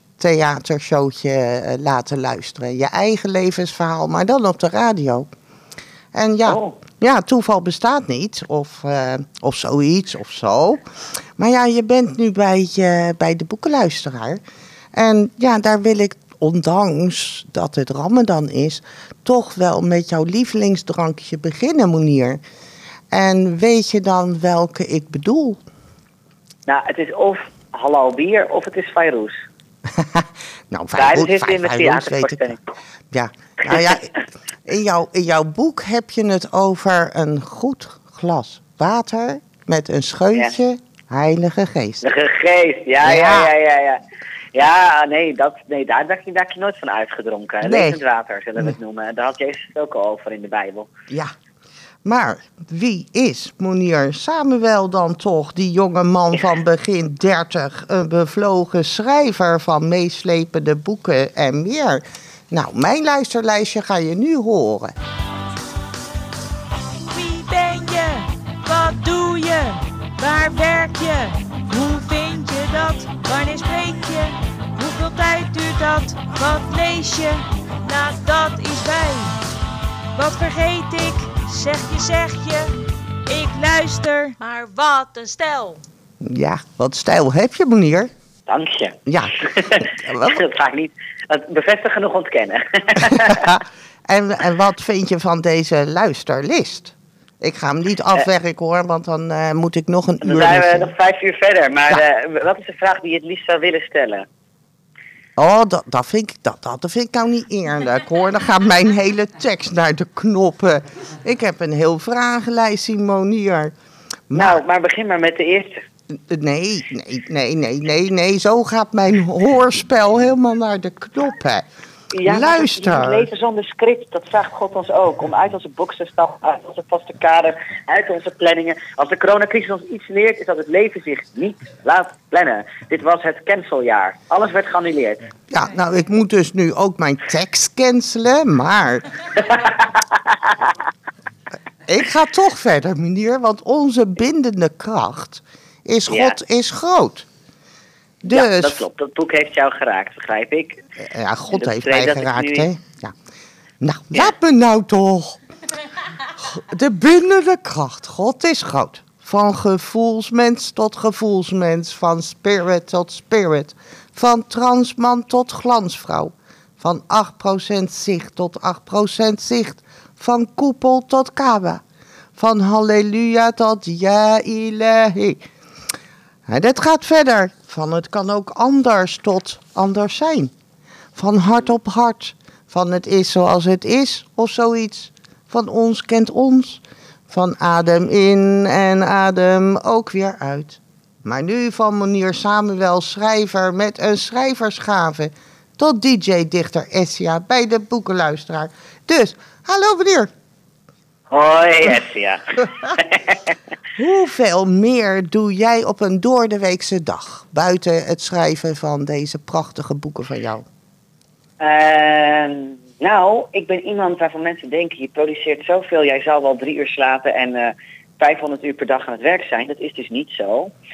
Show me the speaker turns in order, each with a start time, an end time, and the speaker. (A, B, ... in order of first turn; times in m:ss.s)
0:00.2-0:05.3 A
0:06.1-0:10.8 A
0:06.5-0:06.8 B
0:11.4-0:14.4 A
0:14.9-0:22.4 A
0:23.1-0:25.6 A
0:26.7-0:29.4 B
0:29.9-0:32.6 A
0:31.0-0:32.6 B
0:33.1-0:34.1 A
0:33.7-0:34.0 B
0:34.7-0:42.0 A
0:42.0-0:44.0 B
0:43.0-0:43.5 A
0:44.5-0:50.9 B
0:47.6-0:48.0 A
0:52.0-1:04.9 A
1:07.0-1:19.4 C
1:20.2-1:25.8 C
1:26.2-1:28.1 A
1:28.5-1:33.6 B
1:29.1-1:30.4 A
1:33.2-1:40.9 A
1:40.2-1:44.3 B
1:45.4-1:53.7 A
1:54.3-1:54.6 A
1:54.3-1:55.8 B
1:56.1-2:01.6 A
2:02.1-2:15.3 B
2:02.2-2:03.3 A
2:15.5-2:19.1 A
2:19.4-2:20.8 B
2:21.9-2:27.3 A
2:26.1-2:26.4 B
2:28.2-2:28.8 A
2:28.3-2:30.8 B
2:31.0-2:33.1 A
2:31.5-2:32.7 B
2:33.8-2:35.4 A
2:36.4-2:51.8 A
2:52.4-2:55.4 A
2:56.5-3:00.5 A
3:01.2-3:20.3 A
3:21.3-3:23.6 B
3:24.0-3:30.7 A
3:31.6-3:40.7 B